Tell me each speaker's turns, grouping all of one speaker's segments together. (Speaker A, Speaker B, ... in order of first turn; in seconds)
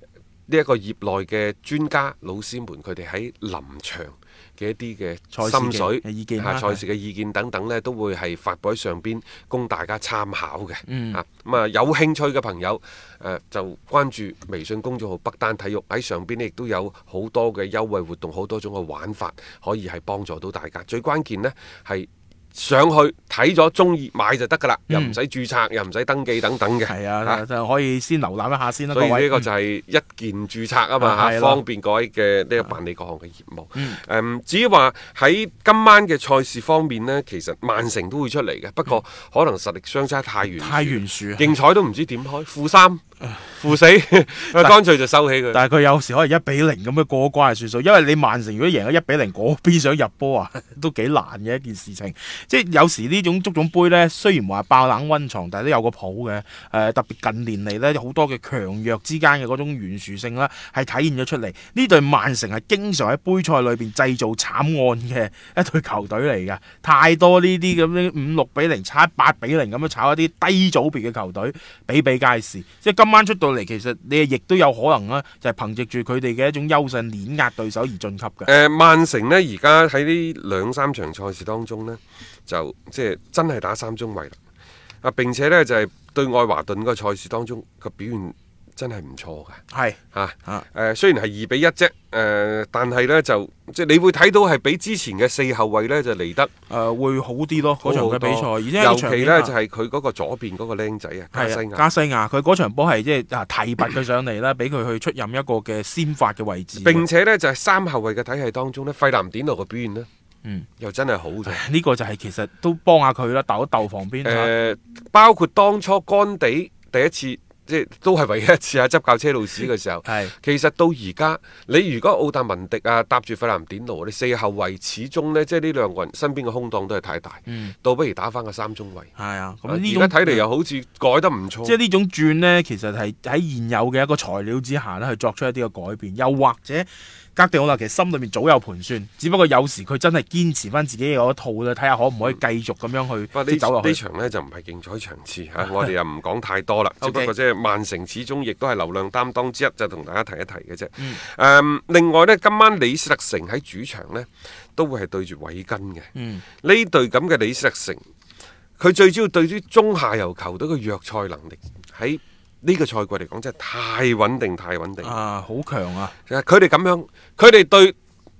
Speaker A: 0.5-27.4, 28.9-45.6, 78.5-84.4, 85.0-89.6, 90.1-96.5, 97.6-101.8, 106.8-110.1, 110.8-111.6, 114.2-129.1, 129.7-131.8, 143.3-156.1, 156.6-158.0, 158.8-165.1, 166.3-167.9
Speaker B: 5.3-6.8, 10.9-11.2, 24.9-25.1, 26.9-29.4, 31.0-31.6, 40.6-41.5, 45.5-78.5, 89.7-90.7, 96.7-99.5, 101.3-107.0, 111.5-114.5, 120.0-120.3, 127.5-127.7, 129.2-130.4, 131.6-144.0, 147.0-147.3, 156.1-156.4, 165.0-166.1